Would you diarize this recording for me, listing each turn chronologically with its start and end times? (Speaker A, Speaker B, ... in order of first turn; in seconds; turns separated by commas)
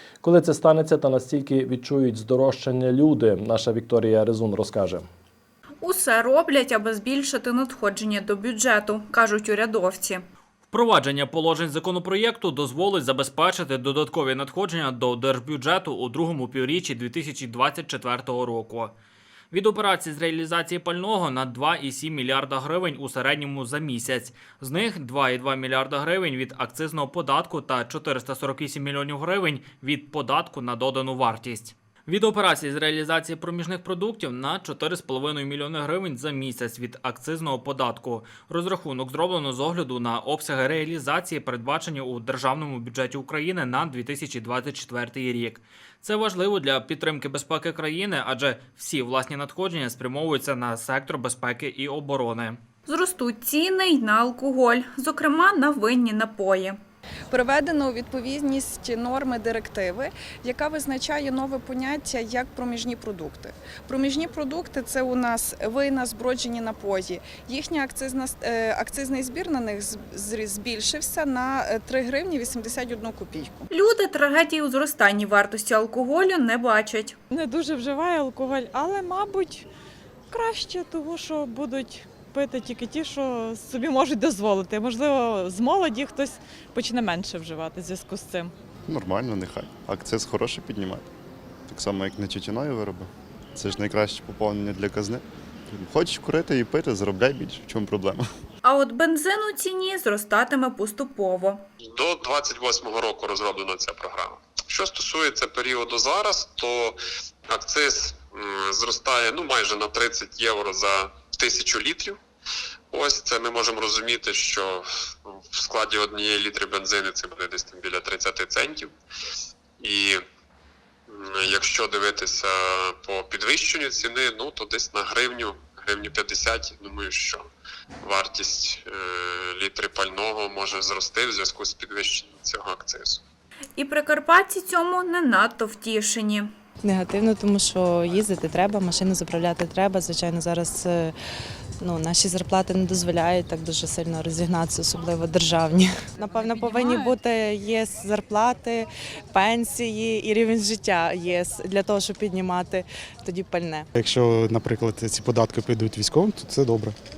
Speaker A: 0.2-5.1, Speaker B: 5.8-10.2, Speaker C: 10.7-18.9, Speaker C: 19.5-52.6, Speaker B: 52.9-56.8, Speaker D: 57.3-73.7, Speaker B: 73.7-77.2, Speaker E: 77.3-79.7, Speaker E: 80.3-88.5, Speaker F: 88.9-91.1, Speaker F: 91.7-98.2, Speaker B: 98.6-101.6, Speaker G: 102.0-107.0, Speaker G: 107.5-112.2, Speaker G: 112.9-114.8, Speaker G: 115.6-118.9, Speaker G: 119.8-120.2, Speaker G: 121.2-127.4, Speaker G: 128.1-128.9, Speaker G: 129.5-133.2, Speaker B: 133.8-136.5, Speaker H: 136.8-141.1, Speaker H: 141.8-153.9, Speaker B: 146.7-147.1, Speaker I: 154.0-156.9